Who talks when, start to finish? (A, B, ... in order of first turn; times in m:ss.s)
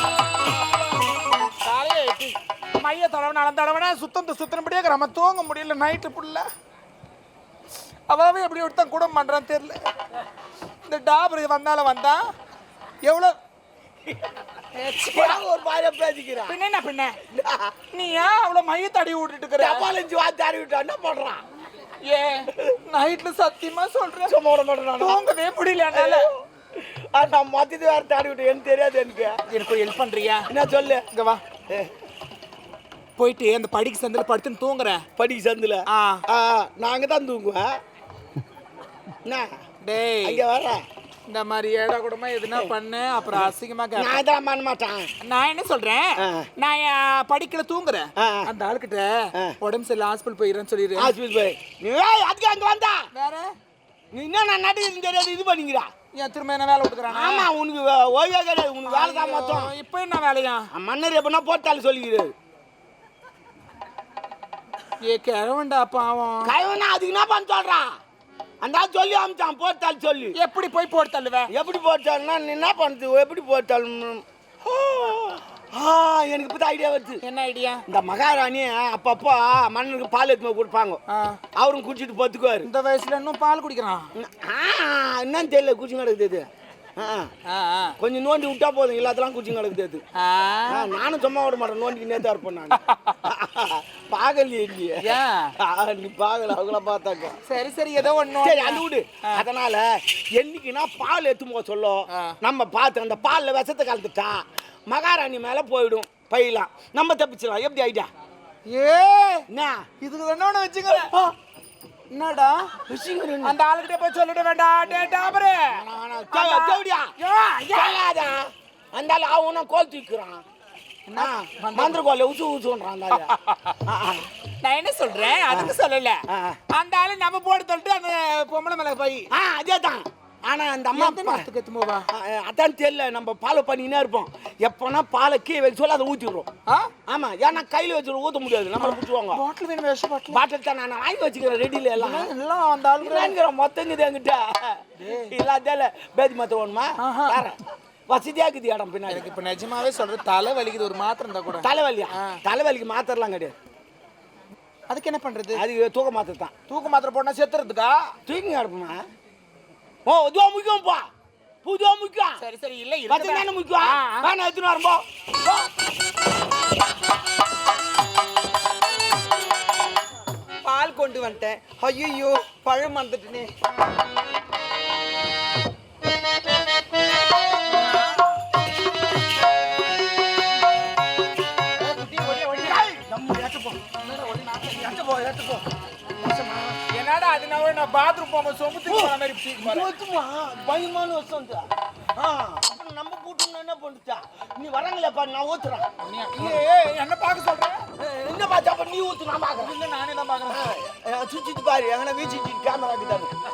0:01.6-0:06.4 A
0:08.1-0:09.8 A
0:10.9-0:12.2 A
0:13.0-0:13.3 A
0:14.8-0:15.4 A
0:15.0-0:16.6 B
0:16.5-0:17.2 A
0:17.4-0:17.7 B
0:17.9-0:19.9 A
0:19.6-0:21.4 B
0:22.0-0:24.4 A
0:24.3-0:25.2 B
0:25.0-0:26.2 A
0:25.9-0:26.2 B
0:26.7-0:29.3 B
0:29.5-0:30.5 A
0:30.5-0:31.0 B
0:31.1-0:31.4 A
0:33.2-0:35.0 A
0:35.2-0:37.7 B
0:35.9-0:36.2 A
0:39.2-0:39.5 B
0:39.8-0:40.4 A
0:40.2-0:40.8 B
0:41.3-0:44.2 A
0:43.4-0:45.1 B
0:45.2-0:51.1 A
0:46.2-0:46.5 B
0:48.2-0:48.5 B
0:51.0-0:53.0 B
0:53.1-0:53.5 A
0:54.1-0:55.9 B
0:56.1-0:57.5 A
0:57.1-0:59.7 B
0:58.8-1:00.7 A
1:00.7-1:02.3 B
1:05.0-1:06.5 A
1:06.4-1:07.8 B
1:08.6-1:10.4 B
1:10.4-1:11.5 A
1:11.5-1:14.2 B
1:14.8-1:15.3 A
1:15.7-1:17.2 B
1:17.2-1:17.8 A
1:17.9-1:21.0 B
1:21.1-1:21.4 A
1:21.6-1:22.7 B
1:22.6-1:24.0 A
1:24.2-1:27.3 B
1:27.5-1:27.9 A
1:28.0-1:30.0 B
1:30.2-1:30.9 A
1:30.7-1:35.0 B
1:32.7-1:33.2 A
1:35.0-1:35.5 A
1:35.6-1:37.4 B
1:37.4-1:39.4 A
1:38.4-1:48.1 B
1:48.7-1:49.4 A
1:49.5-1:49.8 B
1:50.0-1:51.1 A
1:50.9-1:51.3 B
1:52.1-1:52.6 A
1:52.9-1:53.6 B
1:53.4-1:55.8 A
1:54.9-1:57.1 B
1:56.3-1:58.0 A
1:57.7-2:00.4 B
2:01.1-2:02.0 A
2:01.2-2:03.3 B
2:03.1-2:03.7 A
2:03.9-2:04.3 B
2:04.6-2:06.2 A
2:05.5-2:05.8 B
2:06.3-2:06.6 B
2:06.7-2:09.3 A
2:09.3-2:11.5 B
2:10.9-2:12.0 A
2:12.1-2:16.5 B
2:17.1-2:19.4 B
2:18.8-2:20.4 A
2:20.3-2:22.3 B
2:22.0-2:23.4 A
2:23.0-2:27.6 B
2:25.0-2:25.3 A
2:27.0-2:27.4 A
2:28.1-2:29.3 B
2:29.1-2:32.4 A
2:31.6-2:33.5 B
2:34.9-2:35.6 A
2:35.6-2:36.5 B
2:36.7-2:38.1 A
2:38.3-2:39.0 B
2:40.0-2:41.0 B
2:41.6-2:42.4 B
2:42.4-2:44.3 A
2:43.1-2:45.7 B
2:50.6-2:53.5 C
2:57.7-2:58.1 A
3:01.9-3:02.8 A
3:02.5-3:03.8 B
3:04.0-3:04.8 A
3:04.5-3:05.6 B
3:06.2-3:06.8 B
3:06.9-3:09.9 A
3:08.8-3:15.9 B
3:16.0-3:17.8 A
3:18.0-3:19.7 B
3:19.6-3:20.6 A
3:20.5-3:23.3 B